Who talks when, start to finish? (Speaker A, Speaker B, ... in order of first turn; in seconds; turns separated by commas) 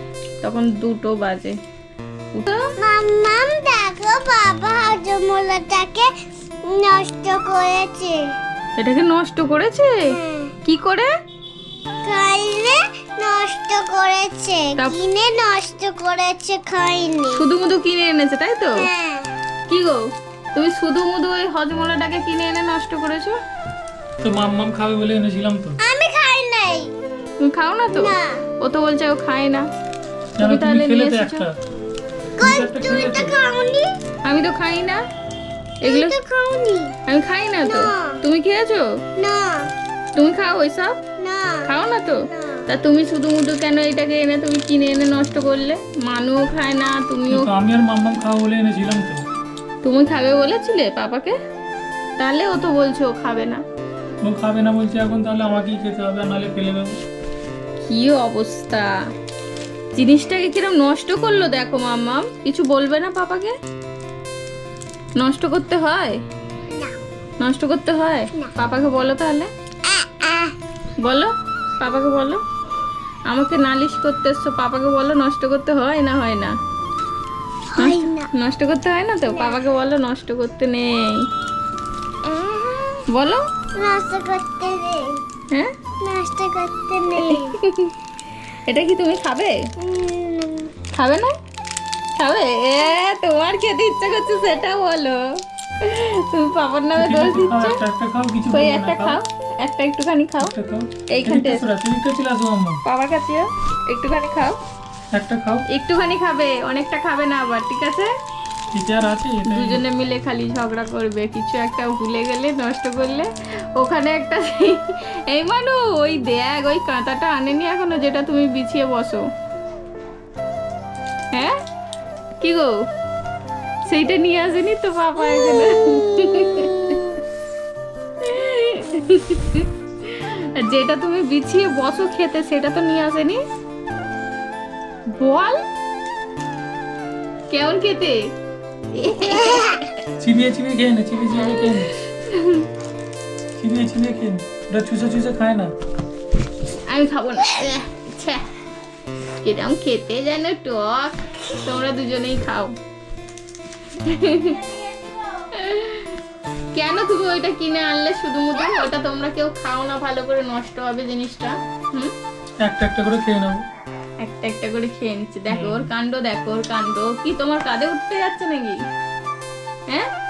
Speaker A: 0.4-1.5, Speaker A: 2.3-2.7, Speaker B: 2.8-6.1, Speaker B: 6.7-8.2, Speaker A: 8.8-10.1, Speaker B: 10.1-10.5, Speaker A: 10.6-11.1, Speaker B: 12.0-17.4, Speaker A: 17.3-18.8, Speaker B: 18.8-19.3, Speaker A: 19.7-23.4, Speaker C: 24.2-25.8, Speaker B: 25.8-26.9, Speaker A: 27.4-29.7, Speaker B: 27.9-28.4, Speaker C: 30.4-31.5, Speaker A: 30.4-31.4, Speaker C: 32.4-33.3, Speaker B: 32.4-33.9, Speaker A: 34.2-35.0, Speaker A: 35.8-36.1, Speaker B: 35.8-36.9, Speaker A: 37.1-38.9, Speaker B: 37.6-38.2, Speaker B: 39.2-39.7, Speaker A: 40.1-41.0, Speaker B: 41.2-41.7, Speaker A: 41.6-47.5, Speaker B: 42.3-42.7, Speaker C: 47.3-49.2, Speaker A: 49.8-51.3, Speaker A: 52.2-53.6, Speaker C: 54.2-56.9, Speaker A: 57.9-58.9, Speaker A: 60.0-63.5, Speaker A: 65.2-66.2, Speaker A: 67.4-69.5, Speaker B: 69.9-70.5, Speaker A: 71.0-72.4, Speaker A: 73.3-76.5, Speaker B: 77.7-78.3, Speaker A: 77.8-81.3, Speaker B: 79.3-79.6, Speaker B: 82.2-83.1, Speaker A: 83.1-83.5, Speaker B: 83.8-85.2, Speaker B: 86.0-87.6, Speaker A: 87.2-87.9, Speaker A: 88.5-89.6, Speaker B: 89.8-90.7, Speaker A: 90.9-91.3, Speaker A: 92.2-95.2, Speaker A: 95.8-97.8, Speaker C: 97.0-99.2, Speaker A: 98.5-100.5, Speaker C: 100.4-102.8, Speaker A: 101.1-101.7, Speaker A: 102.8-104.6, Speaker C: 105.1-105.7, Speaker A: 105.7-108.1, Speaker C: 108.7-109.8, Speaker A: 109.5-119.2, Speaker A: 122.4-122.8, Speaker A: 123.9-127.2, Speaker B: 125.2-127.1, Speaker A: 128.2-133.4, Speaker A: 135.1-135.6, Speaker A: 137.5-138.2, Speaker A: 138.9-139.9, Speaker C: 140.2-141.9, Speaker A: 141.3-142.7, Speaker C: 143.6-145.7, Speaker A: 146.9-148.5, Speaker A: 149.4-152.7, Speaker A: 154.0-154.7, Speaker A: 155.5-156.2, Speaker A: 156.7-162.1, Speaker C: 162.6-163.6, Speaker A: 164.2-168.8, Speaker C: 165.5-165.9